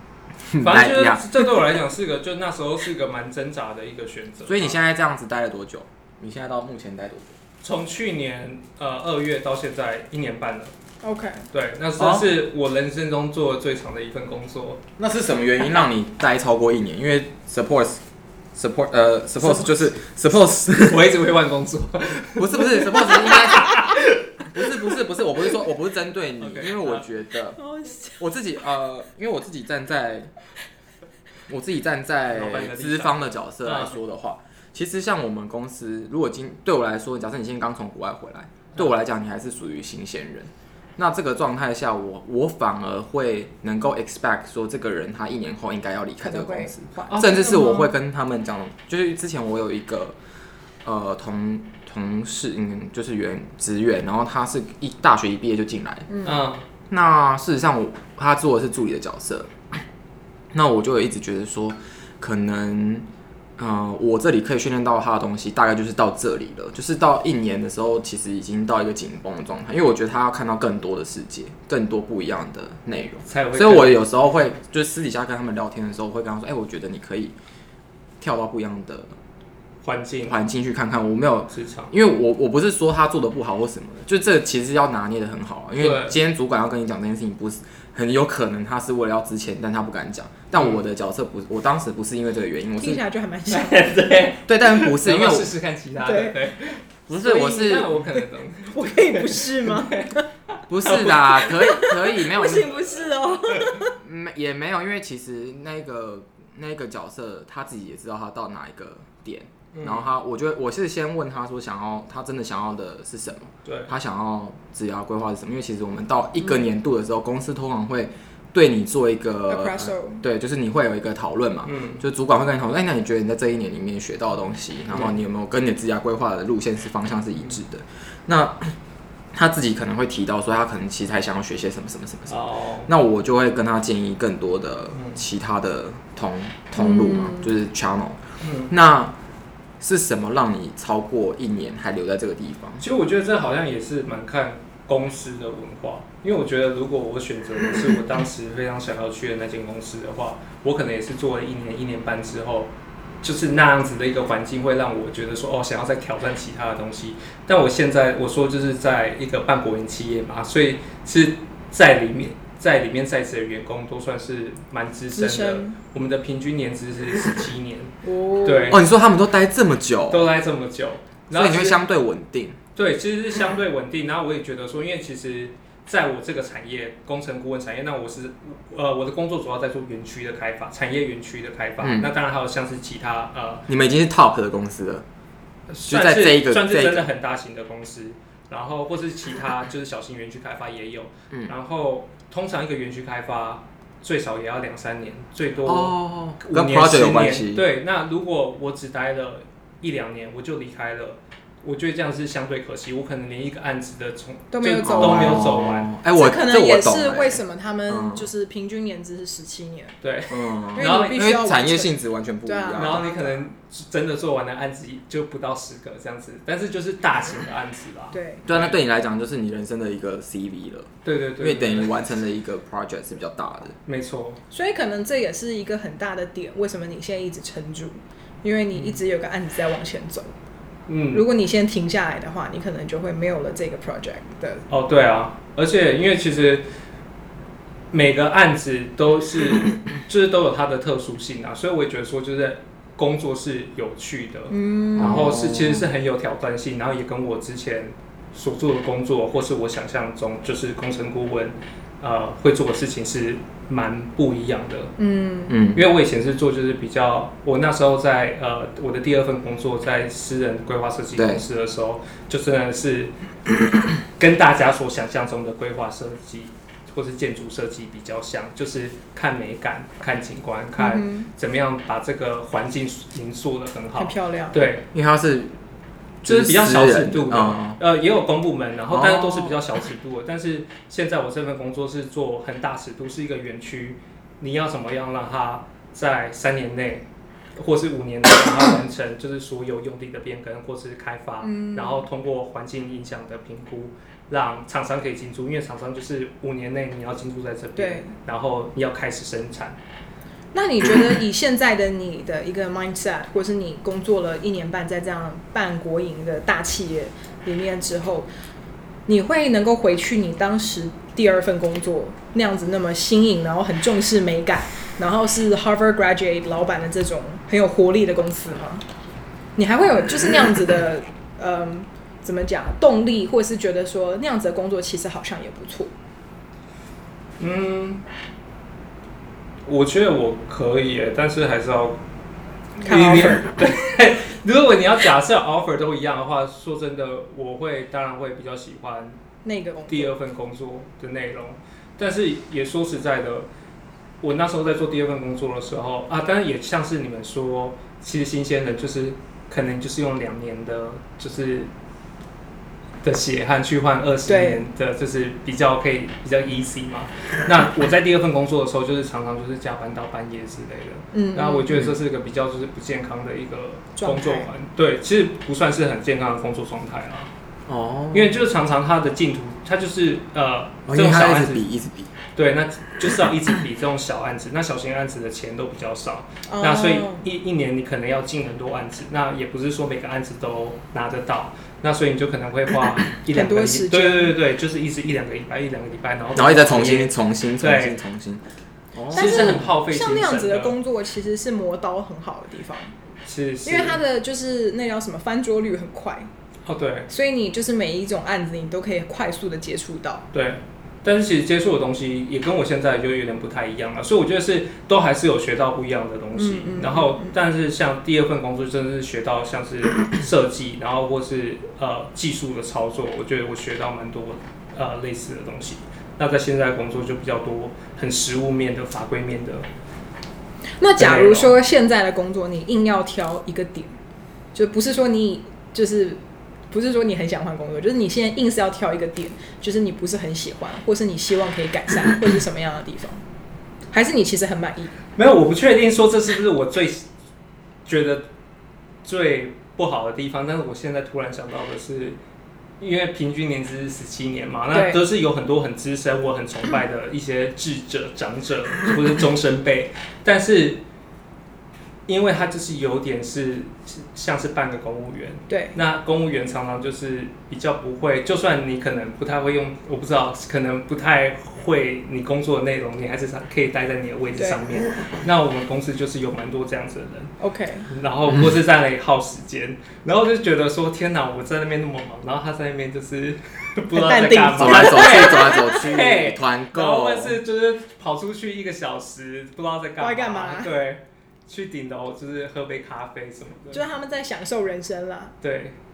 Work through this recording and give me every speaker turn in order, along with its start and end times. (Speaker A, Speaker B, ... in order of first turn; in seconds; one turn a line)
Speaker A: 0.5-1.2
Speaker B: 0.6-4.8
Speaker A: 4.5-7.4
Speaker B: 7.6-10.7
Speaker C: 11.0-11.5
Speaker B: 11.5-14.8
Speaker A: 12.0-12.3
Speaker A: 15.0-18.0
Speaker A: 18.6-21.1
Speaker B: 20.7-24.2
Speaker A: 22.4-24.0
Speaker A: 24.5-27.6
Speaker B: 26.4-27.1
Speaker C: 27.6-28.2
Speaker A: 28.2-30.3
Speaker A: 31.5-50.2
Speaker B: 32.3-34.0
Speaker C: 46.2-47.9
Speaker B: 47.1-47.7
Speaker A: 50.8-56.1
Speaker C: 56.1-56.4
Speaker B: 56.2-56.6
Speaker A: 56.9-59.5
Speaker A: 60.5-63.1
Speaker A: 63.6-77.3
Speaker B: 73.3-74.1
Speaker A: 78.2-79.2
Speaker B: 79.8-80.4
Speaker A: 80.3-93.0
Speaker B: 81.5-81.9
Speaker B: 85.8-86.2
Speaker B: 90.6-90.8
Speaker C: 92.8-93.9
Speaker B: 93.5-100.2
Speaker A: 94.5-95.5
Speaker C: 96.0-96.5
Speaker A: 97.1-98.0
Speaker C: 98.7-100.3
Speaker A: 100.7-103.1
Speaker B: 100.8-101.4
Speaker C: 101.4-104.0
Speaker A: 103.8-128.8
Speaker B: 109.7-110.1
Speaker B: 113.7-113.9
Speaker C: 119.5-120.2
Speaker B: 121.7-122.0
Speaker A: 129.3-139.2
Speaker B: 132.3-132.9
Speaker B: 134.9-135.2
Speaker C: 136.8-137.5
Speaker B: 138.4-138.7
Speaker A: 139.8-142.8
Speaker B: 142.8-167.9
Speaker C: 165.2-165.8
Speaker C: 168.0-168.8
Speaker B: 168.4-168.8
Speaker A: 168.7-170.3
Speaker B: 170.1-171.8
Speaker A: 171.3-172.6
Speaker B: 172.8-183.7
Speaker A: 181.8-182.1
Speaker A: 183.7-185.1
Speaker B: 185.7-205.9
Speaker A: 185.9-187.1
Speaker A: 195.7-197.7
Speaker C: 204.5-205.6
Speaker A: 204.8-208.3
Speaker C: 206.1-210.0
Speaker B: 210.0-211.3
Speaker A: 210.3-213.1
Speaker C: 210.8-213.4
Speaker B: 212.8-218.8
Speaker C: 218.1-218.5
Speaker A: 218.5-223.8
Speaker B: 221.1-222.0
Speaker B: 223.9-224.4
Speaker C: 224.5-230.3
Speaker B: 230.9-231.3
Speaker C: 231.1-234.7
Speaker B: 234.7-236.7
Speaker B: 237.9-254.9
Speaker C: 244.5-245.3
Speaker A: 245.0-245.9
Speaker C: 255.0-255.6
Speaker A: 255.5-255.8
Speaker B: 255.7-263.1
Speaker A: 261.2-261.4
Speaker B: 264.2-274.9
Speaker C: 270.8-271.3
Speaker C: 274.0-274.7
Speaker A: 274.9-275.6
Speaker A: 276.2-277.8
Speaker B: 276.2-287.1
Speaker A: 278.9-279.6
Speaker B: 287.6-299.8
Speaker C: 291.4-292.1
Speaker C: 297.8-298.1
Speaker C: 300.5-308.3
Speaker C: 309.1-318.8
Speaker C: 319.6-325.9
Speaker B: 327.4-328.0
Speaker B: 329.6-332.0
Speaker B: 332.8-339.2
Speaker C: 332.8-333.5
Speaker C: 339.4-340.1
Speaker B: 339.9-343.5
Speaker B: 344.2-351.7
Speaker B: 353.0-367.3
Speaker C: 354.3-354.6
Speaker C: 361.1-361.9
Speaker C: 364.0-364.5
Speaker A: 367.7-368.4
Speaker B: 368.1-371.6
Speaker A: 370.9-372.1
Speaker B: 372.4-388.0
Speaker C: 376.5-377.3
Speaker C: 383.3-384.4
Speaker A: 386.4-388.4
Speaker A: 388.9-389.7
Speaker B: 389.1-390.8
Speaker C: 389.1-392.9
Speaker B: 393.2-394.0
Speaker C: 393.6-396.3
Speaker B: 396.6-397.1
Speaker C: 397.1-400.2
Speaker B: 400.3-419.7
Speaker C: 406.4-407.4
Speaker C: 420.8-423.9
Speaker B: 421.0-421.6
Speaker C: 424.6-433.2
Speaker C: 433.9-434.9
Speaker B: 435.2-437.1
Speaker B: 437.9-438.3
Speaker B: 439.1-442.2
Speaker B: 442.8-450.8
Speaker C: 444.7-445.0
Speaker B: 452.1-467.3
Speaker C: 455.5-455.8
Speaker C: 464.4-464.6
Speaker C: 467.4-467.9
Speaker B: 467.9-483.8
Speaker A: 468.3-468.6
Speaker C: 473.9-475.9
Speaker A: 474.6-477.4
Speaker C: 480.0-480.7
Speaker C: 483.7-485.4
Speaker B: 485.4-485.8